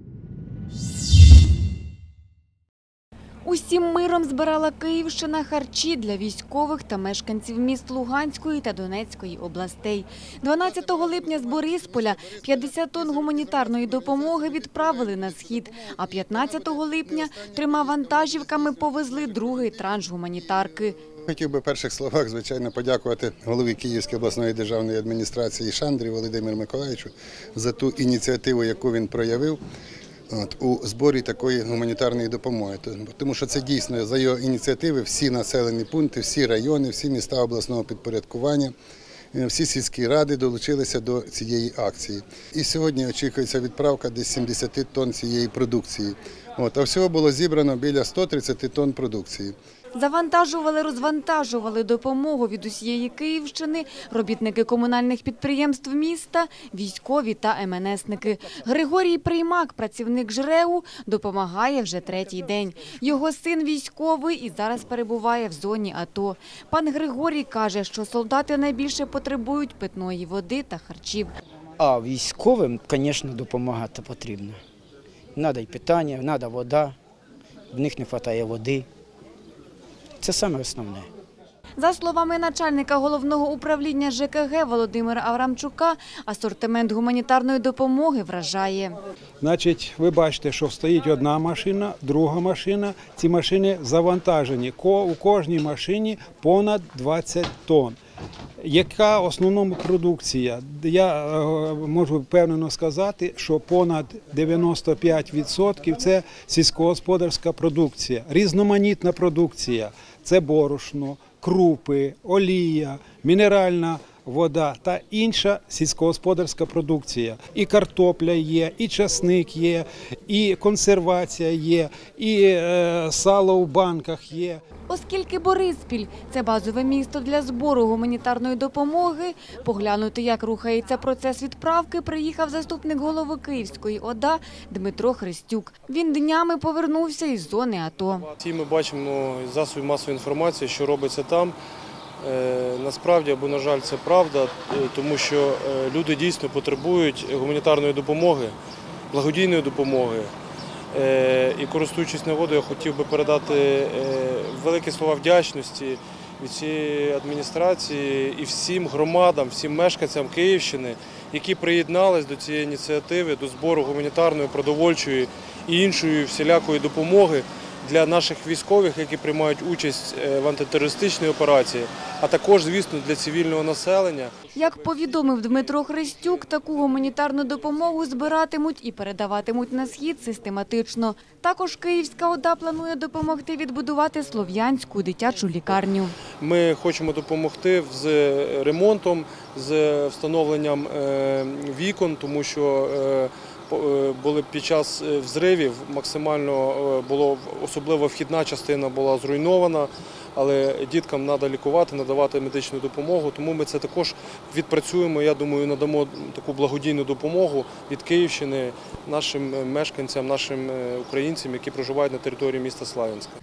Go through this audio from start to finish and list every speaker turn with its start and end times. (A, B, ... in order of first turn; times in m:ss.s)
0:03.4-0:21.0 A
0:21.2-0:29.6 B
0:30.3-0:38.7 B
0:39.3-0:49.5 B
0:49.9-1:11.3 A
1:11.8-1:14.6 C
1:15.3-1:17.0 C
1:17.7-1:18.9 C
1:20.2-1:21.1 C
1:21.8-1:29.0 A
1:29.4-1:38.0 D
1:38.6-2:04.6 D
2:04.9-2:18.3 A
2:18.4-2:21.5 E
2:22.2-2:28.6 E
2:29.1-2:30.3 E
2:30.9-2:54.4 E
2:54.5-3:06.1 A
3:06.4-3:33.3 E